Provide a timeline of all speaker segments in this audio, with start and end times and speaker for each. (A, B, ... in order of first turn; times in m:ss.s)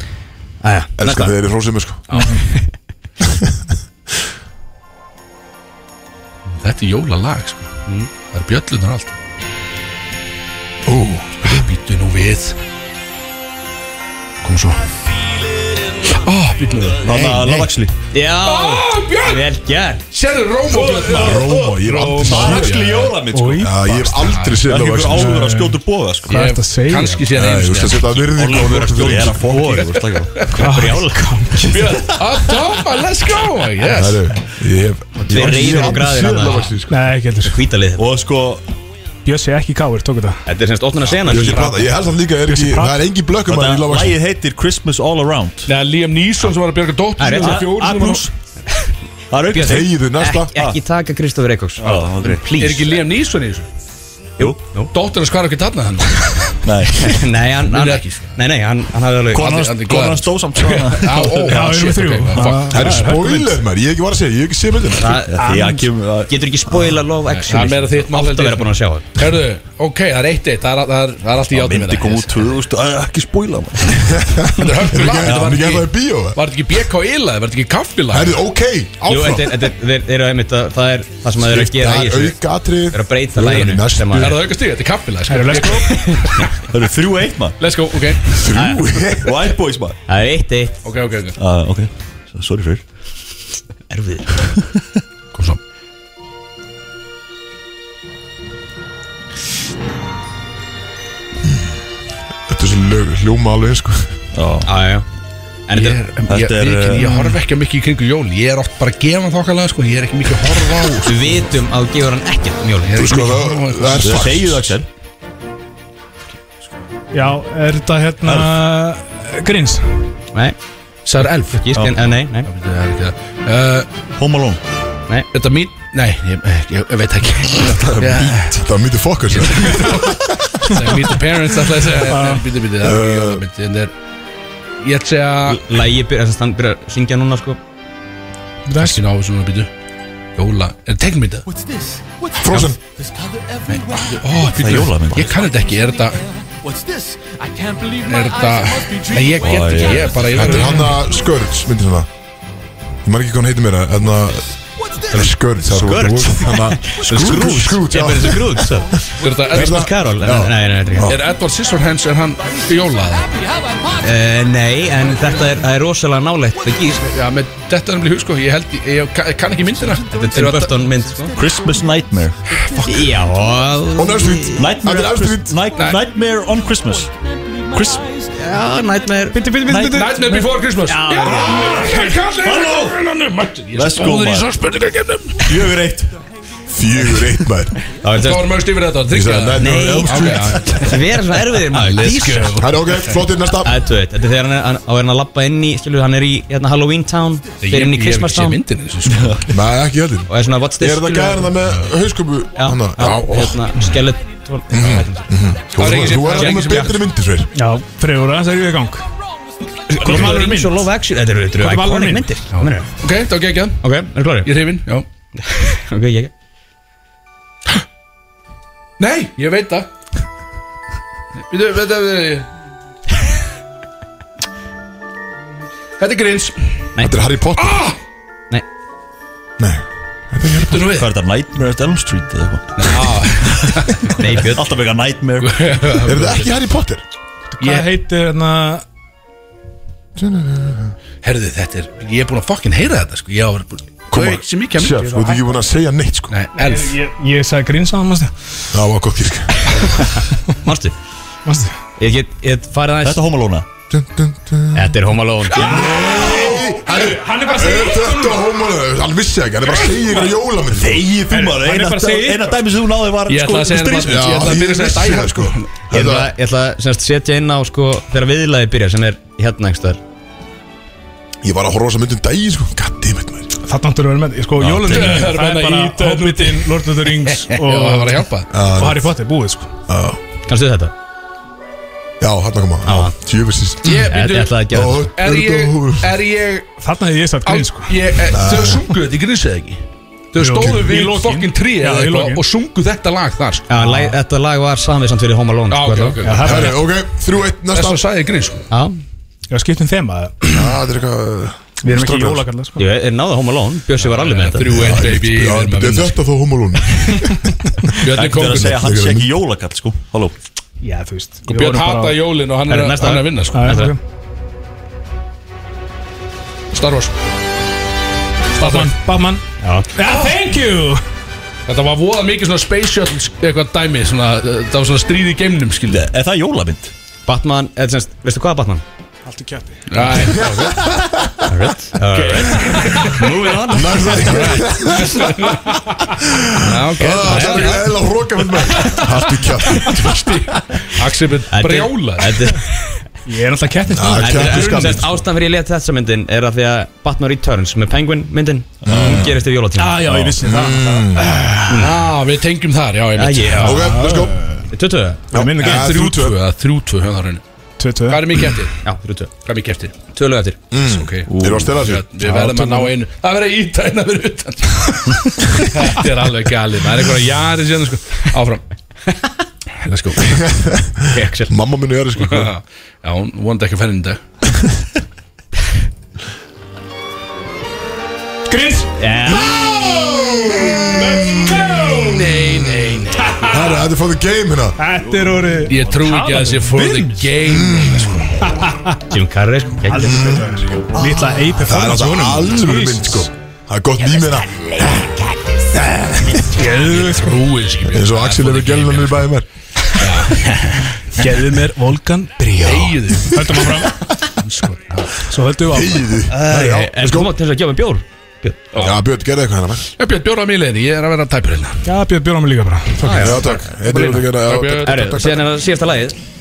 0:00.6-0:01.3 A
0:01.0-0:02.2 B
0:02.1-0:02.4 C
0:03.2-0:03.6 B
0:06.5-0:09.2 C
0:10.8-0:11.7 B
0:11.4-0:12.6 C
0:14.4-0:14.8 C
0:16.0-0:17.5 C
0:17.0-0:17.9 D
0:18.1-0:20.0 A
0:18.4-0:19.5 C
0:20.1-0:23.2 C
0:20.7-0:26.4 D
0:21.0-0:22.9 B
0:23.3-0:23.7 E
0:23.6-0:25.4 B
0:24.2-0:24.6 C
0:25.1-0:27.2 E
0:26.3-0:28.7 C
0:27.3-0:29.4 B
0:28.4-0:30.5 D
0:28.4-0:31.7 A
0:29.6-0:30.4 C
0:30.5-0:32.0 E
0:31.7-0:34.2 C
0:33.9-0:37.0 B
0:35.2-0:36.7 A
0:35.3-0:35.9 D
0:36.9-0:37.6 E
0:37.4-0:38.0 A
0:38.0-0:38.6 D
0:39.2-0:40.4 E
0:40.4-0:41.9 A
0:41.2-0:44.2 B
0:42.4-0:43.0 E
0:43.4-0:45.7 D
0:45.6-0:48.3 C
0:47.2-0:47.6 A
0:47.3-0:48.3 D
0:49.3-0:49.9 D
0:49.5-0:52.9 A
0:49.6-0:50.5 B
0:50.5-0:50.8 D
0:51.8-0:52.4 D
0:52.6-0:53.7 C
0:54.4-0:54.9 A
0:54.9-0:56.6 C
0:56.6-0:57.2 D
0:56.9-0:59.6 A
0:57.7-0:58.3 C
0:59.3-1:01.6 D
0:59.4-1:03.1 C
1:01.4-1:03.6 E
1:02.7-1:05.2 B
1:05.0-1:05.6 A
1:05.3-1:06.9 D
1:05.4-1:05.9 E
1:06.3-1:09.0 A
1:07.3-1:12.5 C
1:11.5-1:14.2 D
1:14.1-1:16.4 B
1:14.5-1:18.4 C
1:15.2-1:15.6 D
1:18.1-1:19.6 B
1:19.0-1:24.3 A
1:21.4-1:24.4 B
1:24.1-1:26.7 C
1:25.3-1:26.4 E
1:25.9-1:26.4 A
1:26.7-1:27.6 D
1:27.6-1:28.4 C
1:28.3-1:29.4 B
1:28.5-1:29.3 A
1:29.2-1:30.0 D
1:30.1-1:30.8 A
1:30.8-1:31.4 C
1:31.4-1:32.8 D
1:33.9-1:34.3 A
1:34.4-1:34.8 D
1:35.3-1:35.6 C
1:42.5-1:44.1 B
1:44.3-1:44.7 D
1:44.6-1:45.0 A
1:45.7-1:46.0 A
1:45.7-1:51.1 C
1:46.3-1:47.3 D
1:51.0-1:53.2 A
1:52.9-1:54.4 C
1:52.9-1:54.7 B
1:54.0-1:54.9 D
1:57.1-2:00.1 E
1:58.2-1:58.6 D
2:01.0-2:03.9 C
2:01.5-2:02.5 A
2:04.1-2:04.6 D
2:05.3-2:08.6 C
2:07.8-2:11.9 B
2:09.3-2:13.9 C
2:12.1-2:12.4 E
2:12.8-2:13.4 B
2:14.8-2:15.7 C
2:15.5-2:17.6 A
2:18.6-2:19.0 E
2:18.8-2:19.7 C
2:20.4-2:21.5 C
2:22.4-2:22.8 B
2:22.5-2:22.7 C
2:23.7-2:26.2 C
2:24.4-2:25.5 D
2:27.8-2:31.0 C
2:29.4-2:30.5 D
2:30.3-2:32.1 B
2:33.0-2:41.2 B
2:35.1-2:38.9 A
2:37.1-2:37.7 D
2:39.2-2:39.9 C
2:39.5-2:41.1 A
2:41.0-2:43.3 C
2:44.0-2:47.0 A
2:47.1-2:50.9 C
2:50.1-2:51.4 A
2:51.3-2:52.4 D
2:52.5-2:53.1 C
2:52.8-2:54.7 A
2:54.0-2:55.6 B
2:54.5-2:57.1 D
2:55.8-2:56.0 C
2:57.6-2:58.0 D
2:58.3-2:59.4 A
2:59.3-3:00.4 E
2:59.6-3:00.4 D
2:59.8-3:05.4 C
3:00.8-3:01.7 A
3:01.3-3:03.0 D
3:03.7-3:04.5 D
3:05.4-3:06.1 D
3:06.7-3:07.7 B
3:08.0-3:08.5 A
3:08.2-3:11.0 C
3:09.1-3:11.0 B
3:09.6-3:12.5 A
3:11.6-3:13.2 C
3:12.6-3:13.8 B
3:13.6-3:18.6 A
3:17.6-3:19.5 C
3:19.1-3:19.4 D
3:19.5-3:23.4 B
3:20.3-3:21.5 A
3:22.6-3:25.3 A
3:23.0-3:23.6 C
3:24.7-3:27.5 B
3:25.8-3:27.0 C
3:26.3-3:26.9 A
3:27.5-3:29.1 E
3:29.9-3:32.9 A
3:30.0-3:30.9 E
3:31.6-3:32.4 E
3:32.5-3:33.8 C
3:33.8-3:34.5 A
3:34.4-3:35.0 C
3:35.4-3:36.3 A
3:39.0-3:39.9 C
3:41.5-3:42.4 C
3:46.0-3:46.9 C
3:47.0-3:47.8 B
3:47.6-3:48.0 C
3:49.6-3:51.0 B
3:50.5-3:51.1 C
3:50.9-3:56.4 D
3:52.8-3:54.0 C
3:54.2-3:54.7 A
3:55.4-3:56.4 C
3:56.0-3:57.0 B
3:57.6-3:58.8 E
3:57.6-3:57.9 C
4:00.2-4:00.9 B
4:01.2-4:05.2 C
4:04.1-4:06.3 B
4:05.1-4:05.4 E
4:06.3-4:07.0 C
4:06.6-4:08.3 E
4:08.7-4:09.8 B
4:10.6-4:10.9 A
4:11.4-4:11.8 E
4:12.0-4:13.2 A
4:13.0-4:13.6 D
4:13.9-4:15.0 B
4:14.7-4:15.7 A
4:15.5-4:16.6 C
4:15.6-4:21.1 B
4:15.6-4:18.4 E
4:20.7-4:24.3 D
4:21.3-4:22.6 E
4:23.2-4:25.7 C
4:24.0-4:26.3 B
4:25.9-4:30.0 A
4:31.4-4:33.5 B
4:33.6-4:39.7 E
4:34.6-4:35.3 D
4:34.8-4:38.5 C
4:38.5-4:39.1 B
4:39.9-4:40.2 B
4:40.5-4:40.9 A
4:42.2-4:44.1 B
4:42.8-4:43.1 A
4:43.8-4:46.8 C
4:44.1-4:45.0 A
4:44.7-4:46.1 B
4:46.8-4:48.3 E
4:47.4-4:49.8 C
4:48.3-4:48.8 B
4:50.3-4:53.7 C
4:50.4-4:52.4 E
4:50.6-4:50.9 B
4:53.7-4:56.2 A
4:53.8-4:54.2 E
4:55.7-4:56.8 C
4:56.2-4:56.8 E
4:56.4-4:58.0 B
4:57.6-4:58.6 C
4:58.7-4:59.0 A
4:59.5-5:00.6 E
5:00.5-5:02.4 B
5:01.8-5:02.8 E
5:02.8-5:04.6 A
5:04.0-5:06.2 C
5:04.6-5:07.5 B
5:07.9-5:08.8 C
5:08.0-5:10.3 D
5:08.5-5:09.3 B
5:10.8-5:12.2 E
5:11.5-5:13.9 C
5:12.7-5:13.9 A
5:13.5-5:14.0 E
5:16.7-5:17.2 C
5:18.5-5:19.0 C
5:18.5-5:19.4 E
5:19.6-5:19.9 A
5:19.9-5:21.0 E
5:21.7-5:26.1 C
5:25.9-5:26.9 D
5:27.2-5:28.8 A
5:29.2-5:29.8 E
5:29.9-5:31.0 C
5:30.1-5:31.4 B
5:31.4-5:34.1 A
5:32.1-5:35.9 C
5:32.8-5:33.1 B
5:33.2-5:34.1 D
5:33.7-5:35.5 B
5:36.2-5:40.4 B
5:36.6-5:37.9 C
5:37.2-5:37.8 A
5:38.7-5:39.2 C
5:39.7-5:42.5 C
5:41.5-5:42.7 A
5:43.2-5:45.1 E
5:43.9-5:45.2 B
5:44.2-5:50.0 A
5:48.8-5:49.4 D
5:48.8-5:49.4 B
5:49.8-5:51.6 E
5:50.0-5:50.4 D
5:50.4-5:51.3 B
5:51.6-5:53.9 C
5:51.7-5:51.9 A
5:53.2-5:53.8 A
5:53.6-5:54.4 B
5:53.7-5:54.6 E
5:54.7-5:55.2 A
5:55.3-5:55.9 E
5:55.3-5:56.4 B
5:55.6-5:57.4 C
5:57.8-5:58.3 E
5:58.1-5:58.8 C
5:58.8-5:59.3 A
5:59.4-5:59.9 C
6:00.1-6:00.6 A
6:00.7-6:02.1 B
6:00.8-6:08.6 C
6:01.3-6:01.8 D
6:02.2-6:02.9 E
6:09.8-6:10.4 C
6:10.3-6:12.5 B
6:11.1-6:11.5 A
6:12.2-6:14.2 C
6:18.5-6:22.4 E
6:19.0-6:19.5 A
6:19.3-6:23.0 B
6:22.0-6:23.9 C
6:23.2-6:23.8 E
6:23.5-6:24.8 B
6:24.8-6:27.3 E
6:25.7-6:28.4 C
6:27.4-6:28.3 B
6:28.4-6:29.0 E
6:29.1-6:30.4 A
6:29.8-6:33.3 E
6:30.0-6:31.0 B
6:31.6-6:34.9 B
6:34.2-6:35.2 A
6:35.7-6:36.4 B
6:36.4-6:37.4 E
6:36.7-6:39.3 C
6:37.9-6:39.4 B
6:39.9-6:40.9 C
6:41.2-6:44.0 E
6:42.6-6:45.2 C
6:45.2-6:46.1 E
6:45.7-6:47.3 B
6:46.3-6:48.7 A
6:48.7-6:49.0 C
6:48.8-6:49.8 B
6:50.0-6:51.8 C
6:51.8-6:53.1 E
6:53.0-6:55.4 B
6:53.0-6:54.2 A
6:53.9-6:55.1 C
6:54.8-6:56.2 A